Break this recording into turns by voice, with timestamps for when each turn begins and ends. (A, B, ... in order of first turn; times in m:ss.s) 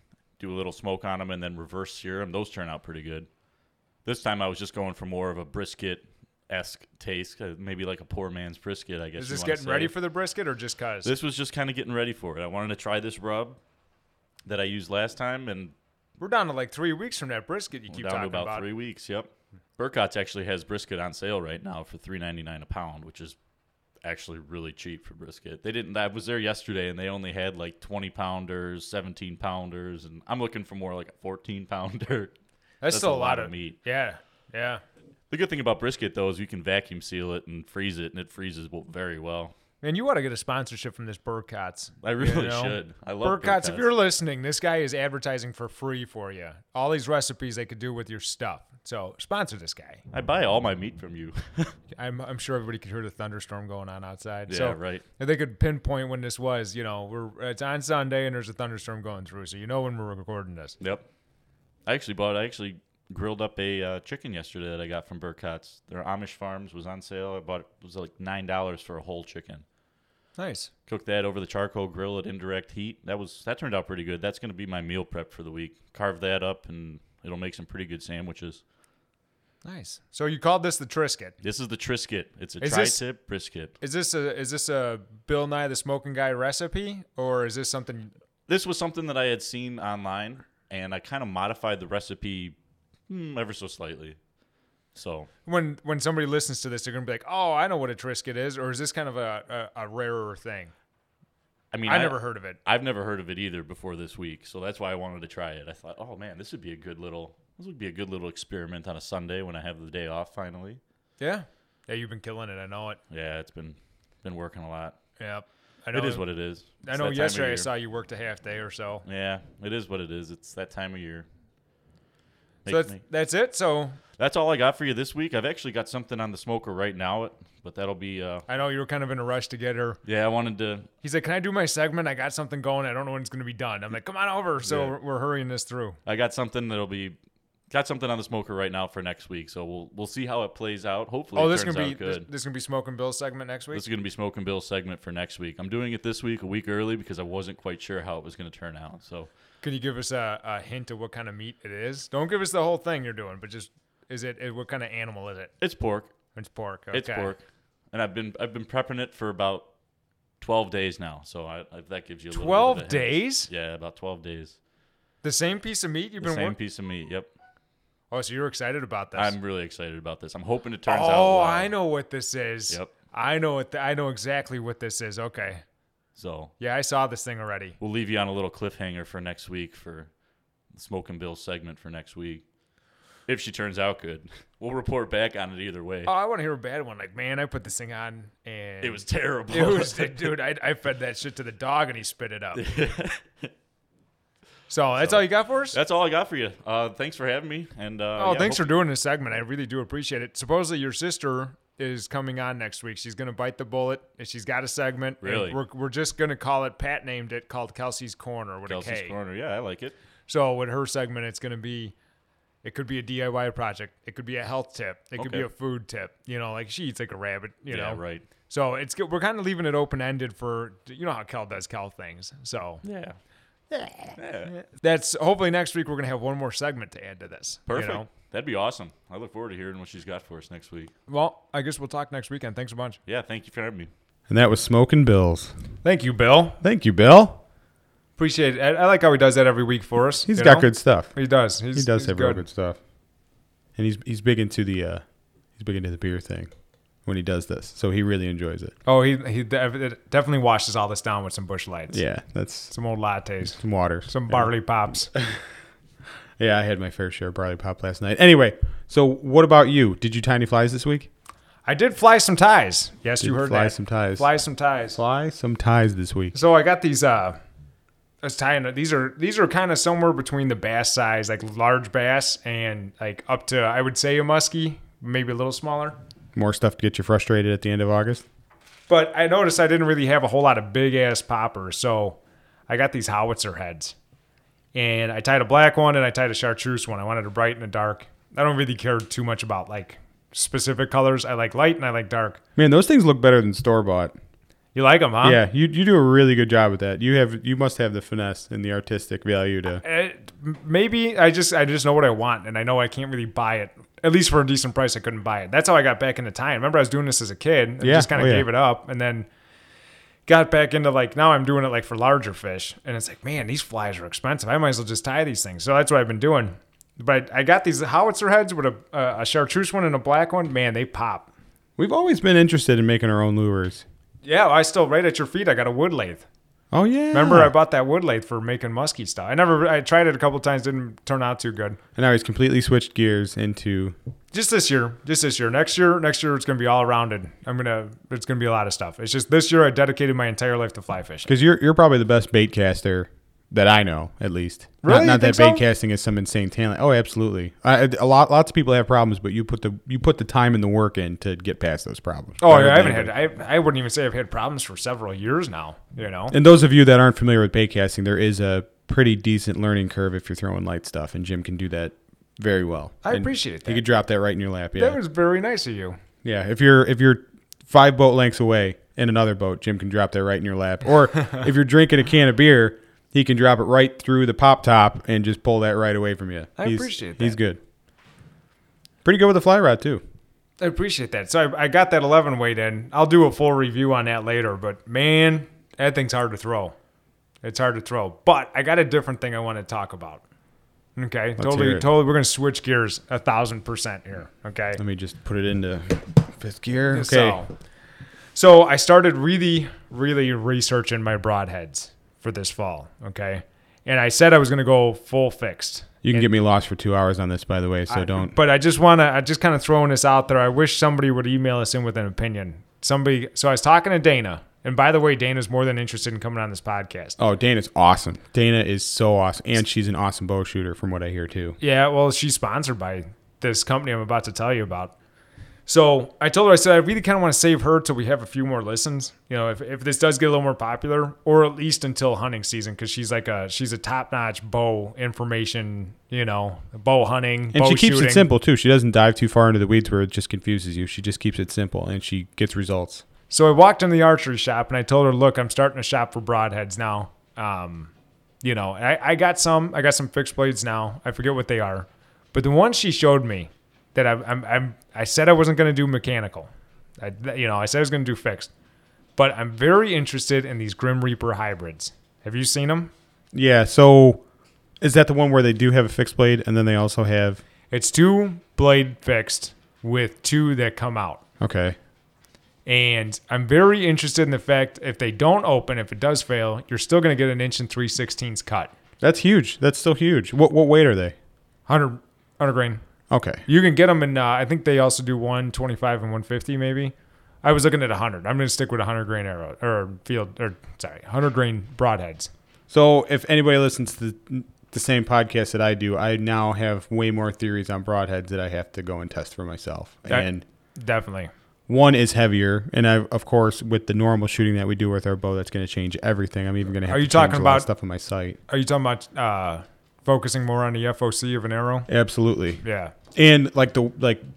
0:00.4-0:03.3 A
0:04.0-0:09.9 A
0:09.2-0:11.1 B
0:11.0-0:13.6 A
0:14.4-0:15.7 A
0:16.2-0:18.6 B
0:17.9-0:23.4 A
0:24.0-0:32.3 A
0:32.8-0:34.8 B
0:32.9-0:33.8 A
0:35.3-0:39.5 A
0:39.8-0:50.0 B
0:42.0-0:43.9 A
0:50.1-0:51.7 A
0:52.0-1:00.8 B
0:54.5-0:55.0 A
1:00.8-1:01.0 A
1:01.8-1:09.6 A
1:10.4-1:10.7 B
1:10.9-1:18.6 A
1:19.6-1:21.3 B
1:21.4-1:23.7 A
1:22.6-1:23.0 B
1:23.8-1:28.1 B
1:28.5-1:32.5 A
1:33.1-1:34.2 A
1:34.9-1:35.3 A
1:35.4-1:40.7 B
1:41.7-1:50.8 A
1:41.8-1:42.6 B
1:51.2-1:53.0 B
1:53.1-1:55.0 A
1:55.2-1:56.2 B
1:55.9-1:57.7 A
1:56.8-1:59.0 B
1:59.0-2:01.2 A
2:02.6-2:03.0 A
2:02.7-2:04.0 B
2:04.2-2:08.4 A
2:08.5-2:10.0 B
2:10.0-2:10.9 A
2:11.0-2:16.0 B
2:14.6-2:15.0 A
2:16.0-2:17.2 A
2:17.7-2:22.3 A
2:21.3-2:23.8 B
2:23.7-2:29.3 A
2:29.6-2:35.5 B
2:35.6-2:36.1 A
2:36.3-2:37.3 B
2:36.9-2:39.7 A
2:40.4-2:44.5 A
2:42.3-2:43.5 B
2:45.2-2:46.5 B
2:46.2-2:47.3 A
2:48.1-2:49.3 B
2:49.1-2:51.7 A
2:50.9-2:55.6 B
2:56.2-2:56.5 A
2:56.6-2:57.8 B
2:57.8-3:00.1 A
3:00.7-3:02.4 A
3:03.2-3:06.1 A
3:06.0-3:12.6 B
3:08.8-3:10.3 A
3:12.6-3:13.5 A
3:14.7-3:15.8 B
3:15.0-3:18.8 A
3:18.2-3:29.1 B
3:25.2-3:25.6 A
3:28.7-3:29.9 A
3:30.3-3:31.9 B
3:32.6-3:42.8 B
3:35.2-3:35.4 A
3:37.7-3:38.2 A
3:42.8-3:43.2 A
3:44.2-3:44.5 A
3:44.5-3:48.1 B
3:47.7-3:50.9 A
3:51.1-3:53.0 B
3:53.1-3:53.9 A
3:54.3-3:55.5 C
3:55.8-3:56.6 B
3:56.6-3:57.4 C
3:58.2-4:02.4 B
4:00.3-4:01.1 C
4:01.7-4:02.8 C
4:03.8-4:05.0 C
4:05.6-4:06.5 C
4:07.0-4:08.7 C
4:08.8-4:12.0 B
4:11.9-4:12.7 C
4:12.7-4:15.1 B
4:13.6-4:14.5 C
4:16.4-4:21.1 C
4:21.6-4:25.0 B
4:23.2-4:24.3 C
4:24.9-4:26.3 C
4:26.3-4:27.4 B
4:28.2-4:36.0 B
4:36.3-4:38.2 C
4:38.9-4:42.2 B
4:42.7-4:43.9 B
4:44.7-4:52.4 B
4:52.6-4:54.1 C
4:54.7-4:55.4 B
4:55.2-4:59.8 C
4:59.8-5:09.3 B
5:07.8-5:08.5 C
5:10.3-5:21.3 B
5:21.8-5:23.8 C
5:24.2-5:26.2 B
5:26.7-5:27.5 C
5:27.1-5:31.8 B
5:32.0-5:34.0 C
5:34.3-5:41.3 B
5:41.3-5:53.1 C
5:44.8-5:45.6 B
5:52.4-5:56.3 B
5:56.3-6:05.0 C
6:03.0-6:03.8 B
6:04.8-6:06.0 B
6:06.2-6:17.6 C
6:16.6-6:17.4 B
6:19.0-6:20.0 C
6:20.6-6:26.7 B
6:27.4-6:30.2 B
6:31.0-6:34.8 B
6:31.4-6:31.9 C
6:34.8-6:37.4 C
6:36.9-6:37.5 B
6:38.3-6:46.3 B
6:46.0-6:48.3 C
6:47.9-6:57.2 B
6:57.2-7:01.6 C
7:01.6-7:04.9 B
7:05.7-7:18.3 B
7:17.5-7:23.0 C
7:23.3-7:27.9 B
7:28.4-7:36.5 B
7:37.0-7:38.5 B
7:39.2-7:42.9 B
7:43.3-7:44.2 C
7:44.8-7:47.4 C
7:47.7-7:51.2 B
7:51.4-7:51.8 C
7:52.6-7:58.7 B
7:59.0-8:01.1 C
8:01.7-8:02.8 B
8:03.1-8:03.4 C
8:03.4-8:12.3 B
8:12.7-8:20.4 C
8:20.1-8:21.3 B
8:21.7-8:28.4 C
8:26.9-8:27.7 B
8:28.5-8:31.9 B
8:31.9-8:32.6 C
8:32.6-8:32.9 B
8:33.1-8:34.2 C